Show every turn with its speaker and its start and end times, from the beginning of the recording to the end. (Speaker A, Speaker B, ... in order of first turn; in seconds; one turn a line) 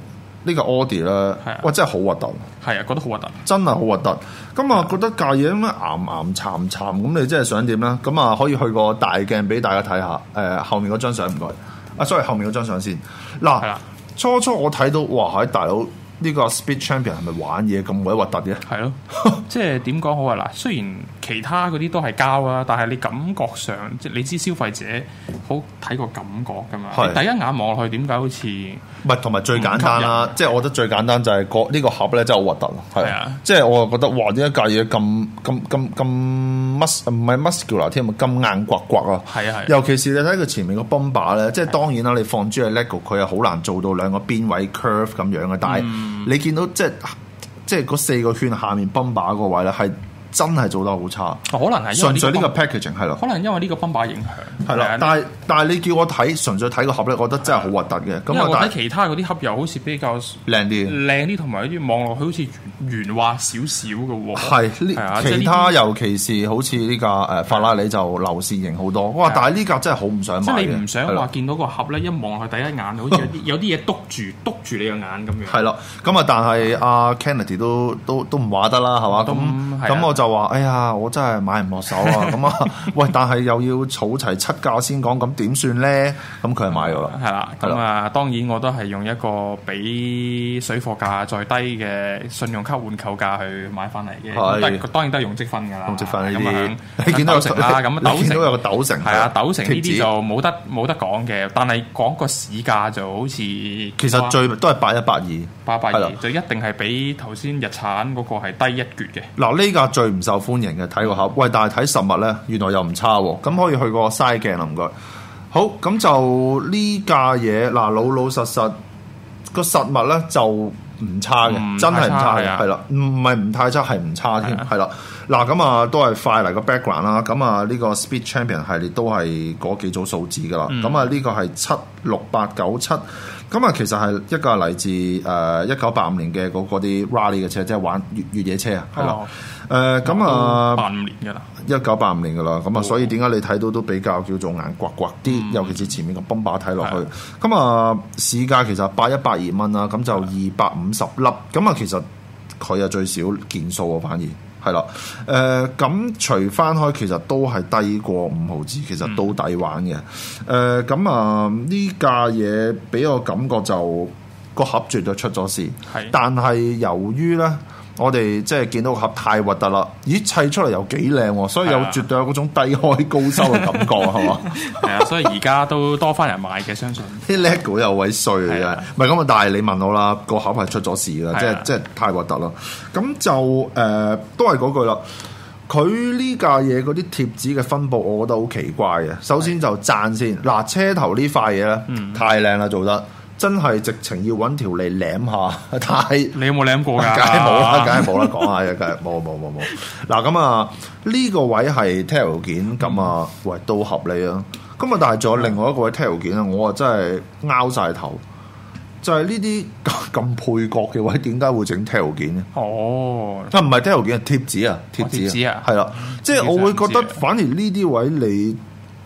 Speaker A: 0.4-2.5
Speaker B: 1.4-1.7
Speaker B: 2.6-3.4
Speaker A: 3.5-19.4
Speaker B: 18.6-28.8
Speaker A: 26.9-27.2
Speaker A: 29.0-53.2
Speaker B: 29.5-30.4
Speaker B: 33.0-33.4
Speaker B: 39.3-39.8
Speaker B: 45.6-46.3
Speaker B: 51.5-52.6
Speaker B: 53.1-55.2
Speaker A: 54.6-58.8
Speaker B: 58.3-65.8
Speaker A: 60.5-61.0
Speaker A: 64.3-71.2
Speaker B: 70.4-75.7
Speaker A: 75.5-87.8
Speaker B: 79.1-80.2
Speaker B: 82.0-82.4
Speaker B: 86.7-104.4
Speaker A: 94.3-94.9
Speaker A: 95.9-100.1
Speaker A: 104.0-106.2
Speaker B: 105.7-109.3
Speaker A: 109.4-114.9
Speaker A: 115.5-118.8
Speaker A: 119.5-140.9
Speaker B: 121.4-122.7
Speaker B: 130.7-131.2
Speaker B: 139.0-139.3
Speaker B: 140.0-141.6
Speaker A: 141.6-152.1
Speaker B: 142.8-143.1
Speaker B: 145.2-145.9
Speaker B: 146.8-147.1
Speaker A: 152.6-175.1
Speaker B: 159.0-159.3
Speaker B: 165.9-166.2
Speaker B: 171.6-172.0
Speaker B: 173.4-177.5
Speaker A: 177.2-185.0
Speaker B: 178.5-178.8
Speaker B: 181.3-181.7
Speaker A: 185.7-208.2
Speaker B: 191.9-192.2
Speaker B: 196.3-198.5
Speaker A: 209.0-212.5
Speaker B: 212.5-213.6
Speaker A: 213.5-218.6
Speaker B: 215.0-217.2